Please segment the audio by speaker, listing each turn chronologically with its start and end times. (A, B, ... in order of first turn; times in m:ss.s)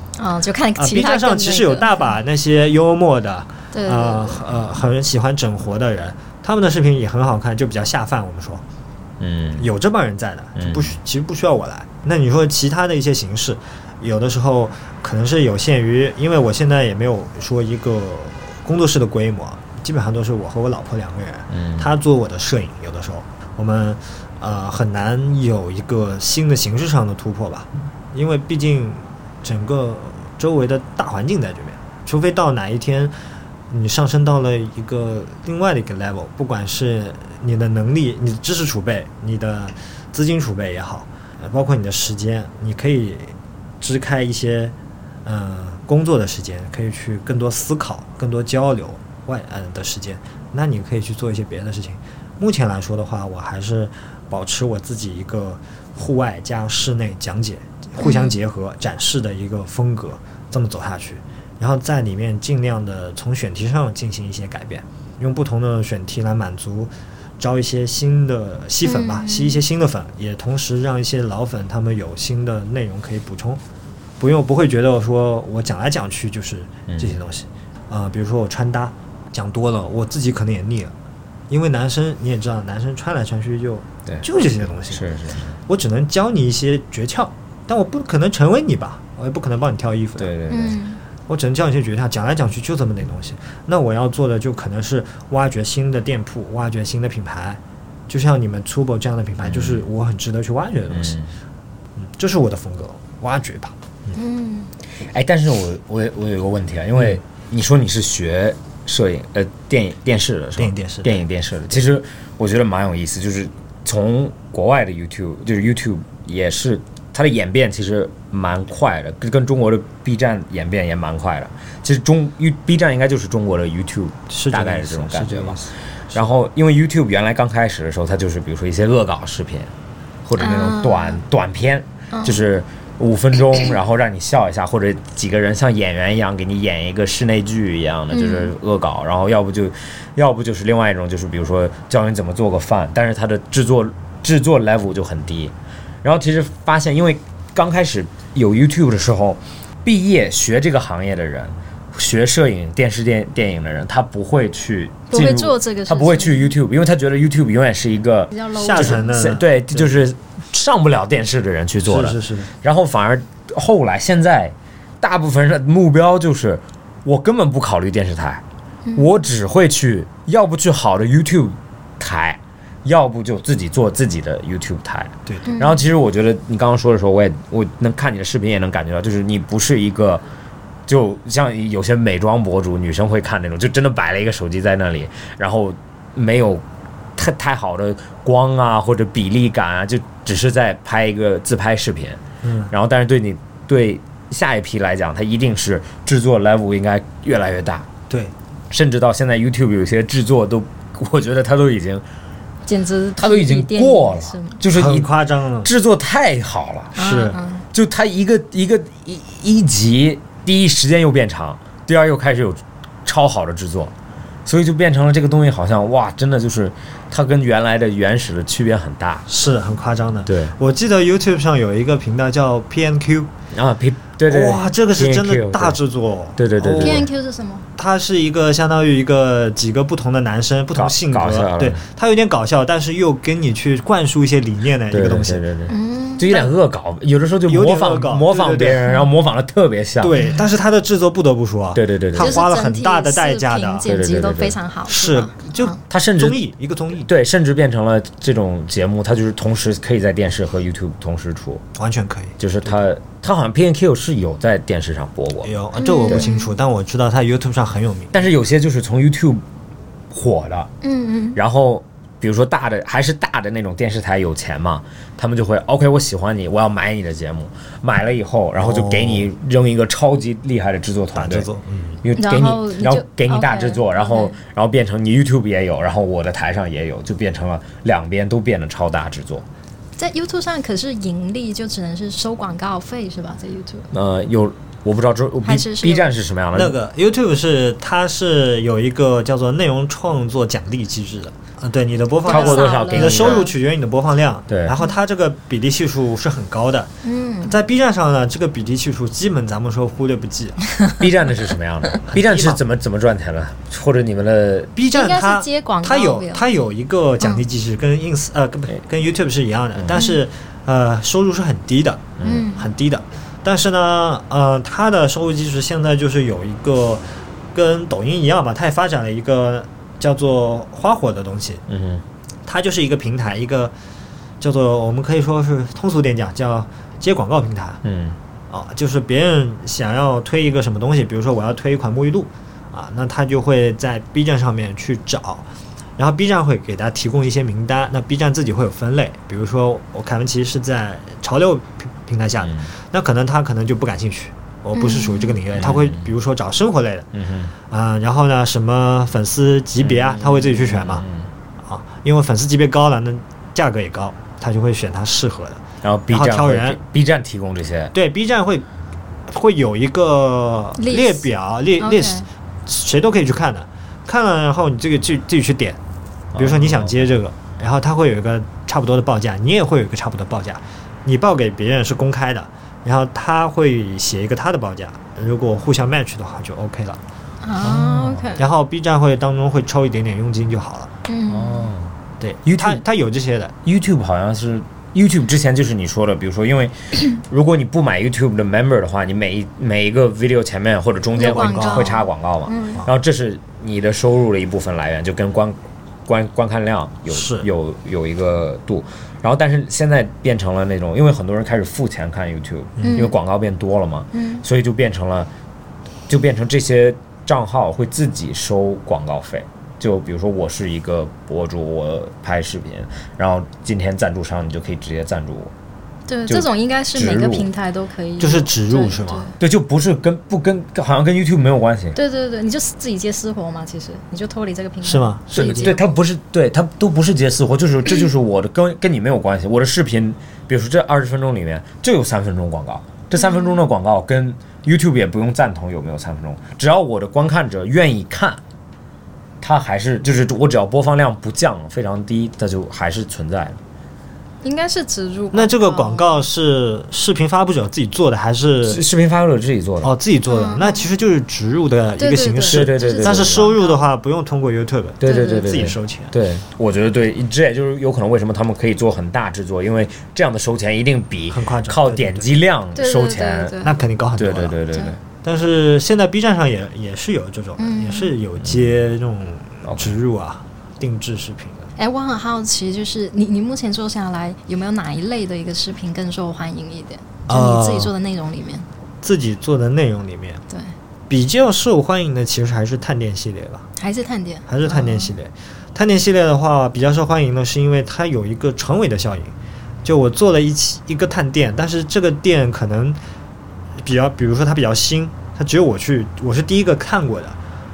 0:00.2-0:02.2 A
0:00.8-0:08.6 B
0:03.7-0:04.4 A
0:09.2-0:09.7 C
0:09.6-0:33.1 B
0:10.6-0:10.9 C
0:21.5-0:21.9 C
0:33.7-0:44.7 B
0:45.2-1:13.6 B
0:58.0-0:58.4 A
1:08.8-1:09.6 A
1:14.2-1:20.9 B
1:16.9-1:17.2 C
1:21.5-1:25.1 B
1:24.9-1:25.6 C
1:25.7-1:30.3 B
1:30.2-1:30.8 C
1:30.5-1:31.0 A
1:31.3-1:41.2 B
1:39.4-1:39.8 C
1:40.9-1:41.3 C
1:42.0-1:43.7 B
1:44.2-1:44.7 A
1:45.0-2:09.7 C
1:50.6-1:51.2 B
2:04.3-2:06.2 B
2:10.2-2:48.4 C
2:10.4-2:11.2 A
2:12.1-2:12.4 A
2:18.1-2:18.5 A
2:35.1-2:36.5 A
2:38.3-2:39.3 A
2:38.5-2:39.9 B
2:41.8-2:42.5 B
2:48.8-2:49.1 A
2:49.0-3:00.2 C
2:55.2-2:55.5 B
2:55.4-2:55.8 A
3:00.9-3:06.6 C
3:07.2-3:17.9 C
3:12.4-3:12.7 B
3:18.7-3:22.0 C
3:22.6-3:24.6 A
3:23.2-3:25.1 C
3:24.7-3:25.7 B
3:25.6-3:27.0 C
3:27.0-3:27.4 B
3:27.0-3:27.6 A
3:27.7-3:33.9 C
3:34.4-3:39.2 C
3:39.3-3:43.3 B
3:40.2-3:40.5 C
3:43.5-3:45.8 C
3:44.3-3:47.1 B
3:46.4-3:47.1 C
3:46.8-3:47.6 A
3:47.8-3:55.4 B
3:50.7-3:51.8 C
3:54.9-4:00.2 C
3:55.7-3:56.5 A
3:57.5-3:58.8 B
4:00.0-4:03.8 B
4:01.7-4:02.4 C
4:02.2-4:05.8 A
4:03.8-4:04.6 C
4:04.9-4:07.1 B
4:05.9-4:06.4 C
4:07.0-4:11.6 C
4:11.8-4:12.8 B
4:12.4-4:15.5 C
4:15.4-4:18.1 B
4:15.8-4:16.5 A
4:18.1-4:19.4 C
4:20.1-4:20.7 C
4:20.8-4:21.4 A
4:21.3-4:31.5 C
4:28.6-4:29.3 B
4:31.1-4:32.0 B
4:32.0-4:39.4 C
4:32.2-4:34.4 A
4:40.0-4:43.9 A
4:43.9-4:46.7 C
4:45.4-4:46.1 A
4:46.5-4:56.9 B
4:52.2-4:53.5 A
4:52.3-4:53.5 C
4:54.5-4:54.7 C
4:57.0-4:57.6 A
4:57.4-5:00.6 B
5:01.0-5:04.7 C
5:02.1-5:02.6 B
5:04.7-5:21.6 B
5:04.9-5:06.5 A
5:09.7-5:10.0 C
5:09.9-5:10.2 A
5:12.2-5:12.5 C
5:12.2-5:12.7 A
5:21.7-5:22.0 C
5:22.5-5:23.7 B
5:24.4-5:27.8 B
5:27.8-5:28.2 C
5:28.5-5:35.4 B
5:36.0-5:47.1 B
5:42.4-5:42.7 C
5:44.7-5:45.4 A
5:45.5-5:46.1 C
5:47.1-5:47.5 C
5:47.7-5:51.0 B
5:49.8-5:51.3 C
5:51.6-5:56.8 B
5:55.8-5:57.9 C
5:57.9-5:58.6 B
5:59.3-6:05.8 B
6:00.8-6:01.3 A
6:01.8-6:02.2 A
6:06.3-6:07.1 C
6:06.4-6:17.0 B
6:17.4-6:18.4 A
6:17.6-6:18.4 C
6:18.4-6:20.9 B
6:21.1-6:21.7 A
6:21.3-6:22.8 C
6:22.2-6:23.5 B
6:23.6-6:45.3 C
6:31.1-6:32.8 A
6:31.2-6:32.0 B
6:37.1-6:37.5 B
6:42.8-6:43.1 B
6:42.8-6:43.1 A
6:44.1-6:44.4 A
6:46.1-6:55.5 C
6:56.1-6:59.3 A
6:56.3-6:57.5 C
6:58.2-6:59.3 B
6:59.4-7:02.0 C
7:01.9-7:05.9 A
7:04.8-7:05.8 B
7:05.3-7:18.4 C
7:13.2-7:13.6 A
7:19.4-7:23.6 C
7:24.4-7:26.3 A
7:25.3-7:28.8 B
7:28.6-7:29.9 C
7:29.8-7:36.1 B
7:30.3-7:30.8 A
7:32.0-7:33.8 A
7:32.5-7:33.5 C
7:35.0-7:43.6 C
7:35.0-7:35.7 A
7:41.3-7:42.3 B
7:42.8-7:43.8 A
7:43.6-7:44.6 B
7:44.2-7:45.0 C
7:45.2-7:51.7 B
7:47.6-7:48.1 A
7:49.6-7:50.0 C
7:51.8-7:58.7 A
7:57.3-7:57.9 B
7:59.0-8:00.4 B
8:01.1-8:03.6 B
8:03.8-8:05.1 A
8:04.5-8:09.3 B
8:09.8-8:13.0 B
8:13.8-8:17.4 B